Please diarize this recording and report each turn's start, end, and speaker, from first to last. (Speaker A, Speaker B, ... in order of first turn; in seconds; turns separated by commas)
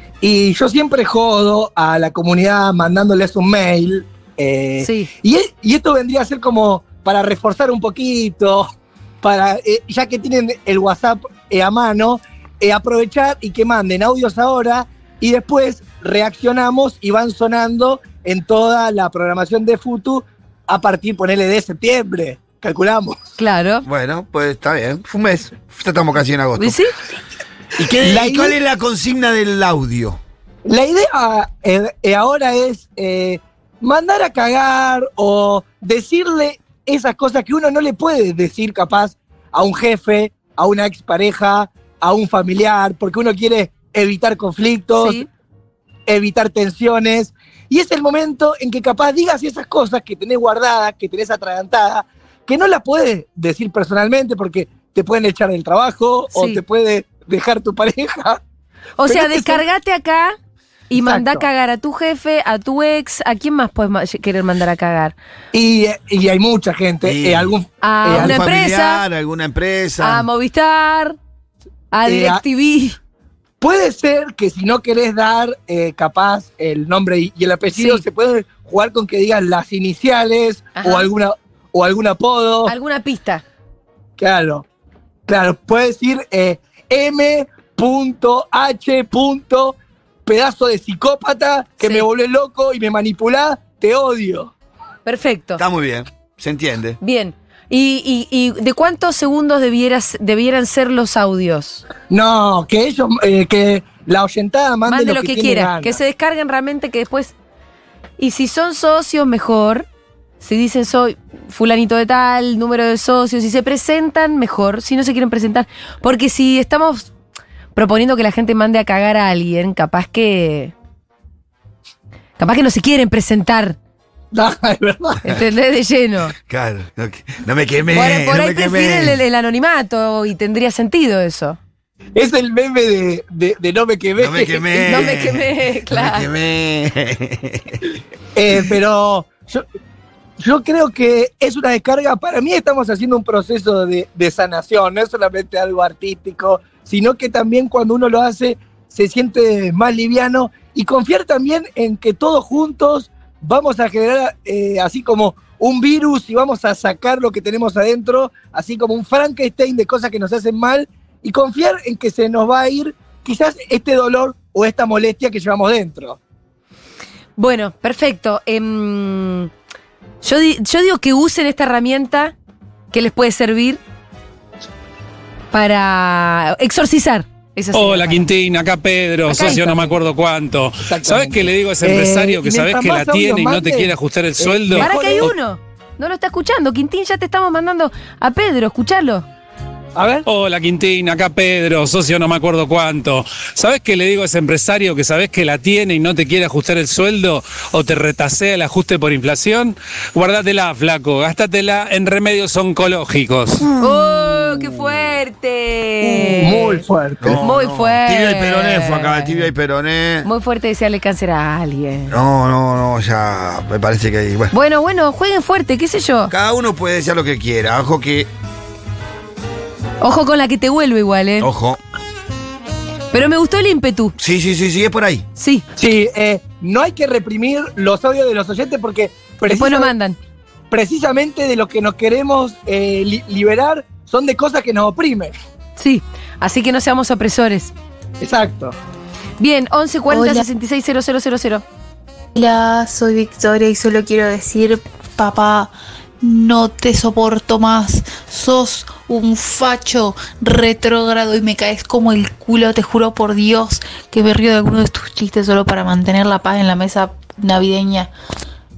Speaker A: 0.2-8.7, Speaker B: 4.8-5.1, Speaker A: 9.2-23.3, Speaker B: 23.4-23.8, Speaker C: 23.9-26.8, Speaker B: 26.6-26.9, Speaker C: 27.8-30.2, Speaker A: 28.0-28.6, Speaker A: 30.6-45.2, Speaker B: 45.0-45.3, Speaker A: 46.1-58.4, Speaker B: 56.3-56.6, Speaker B: 59.0-60.3, Speaker A: 59.0-59.6, Speaker B: 60.9-65.1, Speaker A: 60.9-61.5, Speaker A: 65.5-68.4, Speaker C: 67.0-67.5, Speaker B: 67.8-69.0, Speaker C: 68.1-70.2, Speaker B: 70.0-71.2, Speaker B: 71.9-73.0, Speaker A: 72.0-72.4, Speaker A: 73.6-82.7, Speaker B: 77.7-78.0, Speaker B: 80.7-81.1, Speaker B: 82.7-83.4, Speaker A: 84.2-84.6, Speaker A: 85.3-89.7, Speaker A: 90.2-94.5, Speaker B: 91.8-92.0, Speaker B: 95.0-95.6, Speaker C: 95.6-97.0, Speaker B: 97.0-101.8, Speaker A: 102.1-106.0, Speaker B: 104.9-107.3, Speaker B: 108.2-109.9, Speaker B: 110.4-117.1, Speaker B: 117.7-120.7, Speaker B: 122.4-123.8, Speaker A: 124.3-125.2, Speaker B: 125.2-126.3, Speaker C: 126.5-129.2, Speaker B: 127.9-131.6, Speaker A: 132.2-135.1, Speaker C: 134.2-137.8, Speaker B: 134.9-136.3, Speaker A: 138.3-139.6, Speaker A: 140.4-166.2, Speaker B: 167.4-169.5, Speaker B: 170.2-172.3, Speaker B: 172.9-173.8, Speaker B: 175.5-178.2, Speaker D: 177.7-184.8, Speaker B: 179.3-179.8, Speaker A: 180.8-185.3, Speaker B: 184.7-189.2, Speaker A: 189.9-190.2, Speaker D: 190.3-203.7, Speaker C: 203.8-204.7, Speaker B: 203.8-206.8, Speaker A: 206.0-207.4, Speaker C: 207.2-210.3, Speaker B: 207.4-209.5, Speaker B: 210.2-212.1, Speaker C: 212.1-214.5, Speaker B: 214.5-216.3, Speaker C: 216.3-218.3, Speaker B: 220.0-221.5, Speaker C: 221.4-221.8, Speaker B: 223.1-224.1, Speaker C: 224.2-225.2, Speaker B: 225.4-225.6, Speaker A: 225.8-229.9, Speaker B: 229.5-230.2, Speaker A: 230.7-235.3, Speaker B: 235.8-237.7, Speaker A: 238.2-238.8, Speaker B: 239.4-241.6, Speaker E: 242.3-258.1